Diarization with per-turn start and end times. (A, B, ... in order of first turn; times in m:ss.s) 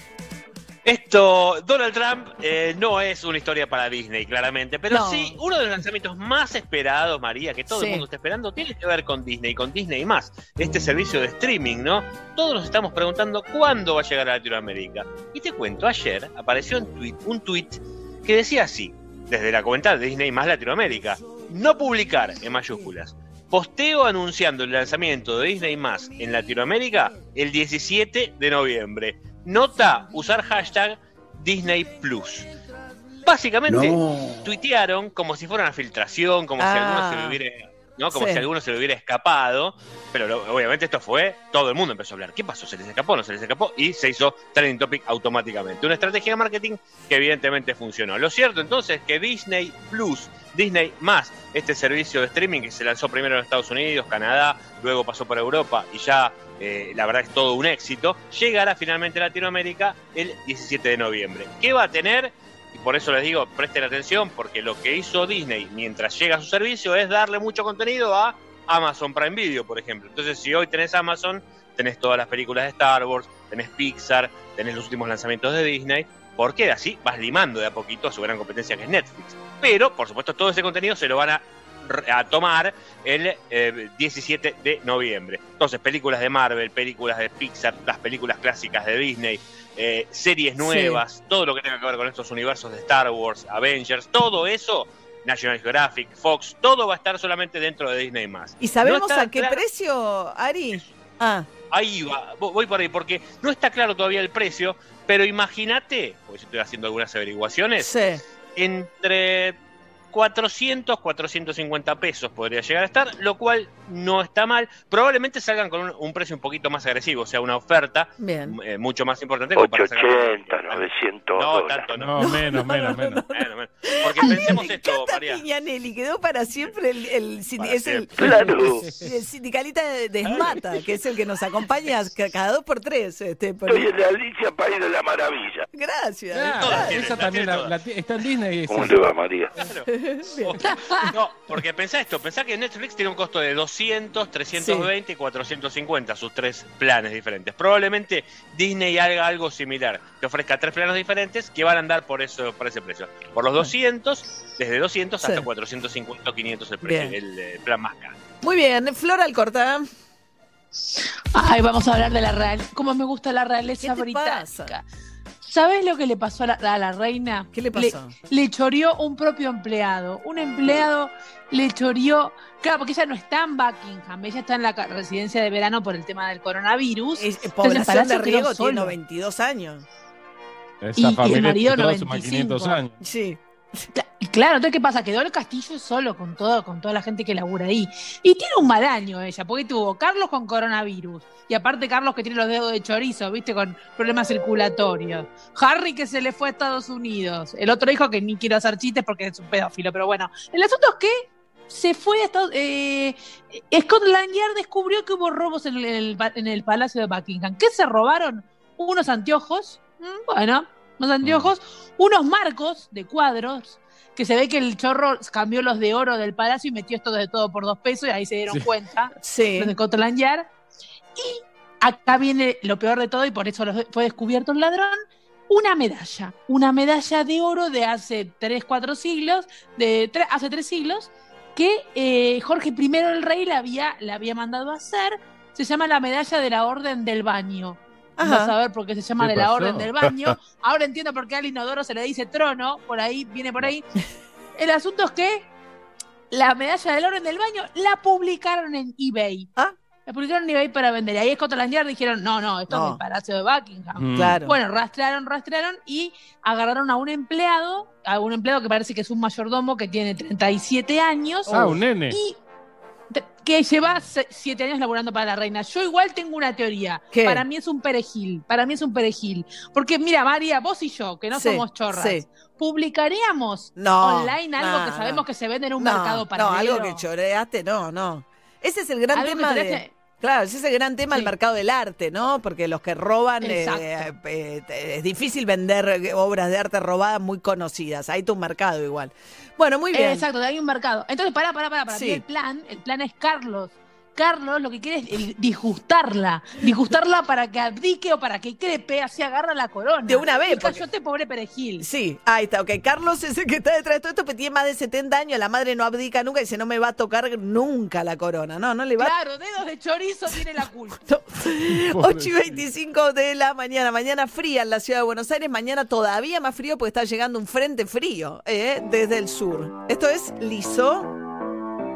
0:00.8-0:32.5 A
0:04.9-0:05.4 B
0:07.7-0:08.0 B
0:33.2-1:39.6 A
0:36.6-0:37.4 B
0:38.1-0:38.4 B
1:30.6-1:31.0 B
1:38.6-1:41.5 B
1:41.7-1:47.9 A
1:47.8-1:48.2 B
1:48.6-1:49.6 A
1:50.1-2:02.3 A
1:58.2-1:58.6 B
1:59.6-2:01.9 C
2:02.0-2:03.2 D
2:02.2-2:13.9 B
2:03.3-2:05.4 A
2:07.6-2:08.1 A
2:08.2-2:08.9 C
2:08.4-2:09.1 D
2:13.7-2:15.7 C
2:15.7-2:17.0 B
2:16.3-2:19.0 D
2:16.6-2:17.7 A
2:18.7-2:19.5 C
2:19.6-2:19.9 A
2:19.9-2:20.6 B
2:20.6-2:21.1 E
2:21.1-2:38.2 A
2:24.6-2:24.9 B
2:36.8-2:37.2 B
2:38.4-2:39.9 B
2:40.8-2:44.8 E
2:43.8-2:44.8 B
2:45.4-2:59.0 E
2:47.5-2:48.1 B
2:57.2-2:59.8 B
3:00.8-3:03.0 D
3:01.0-3:02.8 E
3:03.0-3:03.4 B
3:04.0-3:40.5 E
3:31.2-3:31.5 D
3:39.2-3:39.7 B
3:41.2-4:03.9 E
3:58.2-3:58.5 B
3:59.2-4:00.4 D
4:04.6-4:05.5 E
4:06.3-4:09.5 E
4:10.1-4:22.4 E
4:12.7-4:13.0 B
4:14.0-4:14.4 D
4:14.2-4:14.6 B
4:21.5-4:21.8 B
4:21.5-4:22.2 D
4:23.1-4:37.0 E
4:27.1-4:27.4 B
4:31.3-4:32.3 B
4:33.8-4:35.3 B
4:35.8-4:50.2 B
4:39.1-4:39.9 E
4:43.4-4:44.1 E
4:49.9-5:01.9 E
4:51.9-4:52.2 B
5:00.1-5:00.8 B
5:01.8-5:09.1 B
5:09.0-5:11.0 E
5:11.1-5:21.1 B
5:11.8-5:12.6 D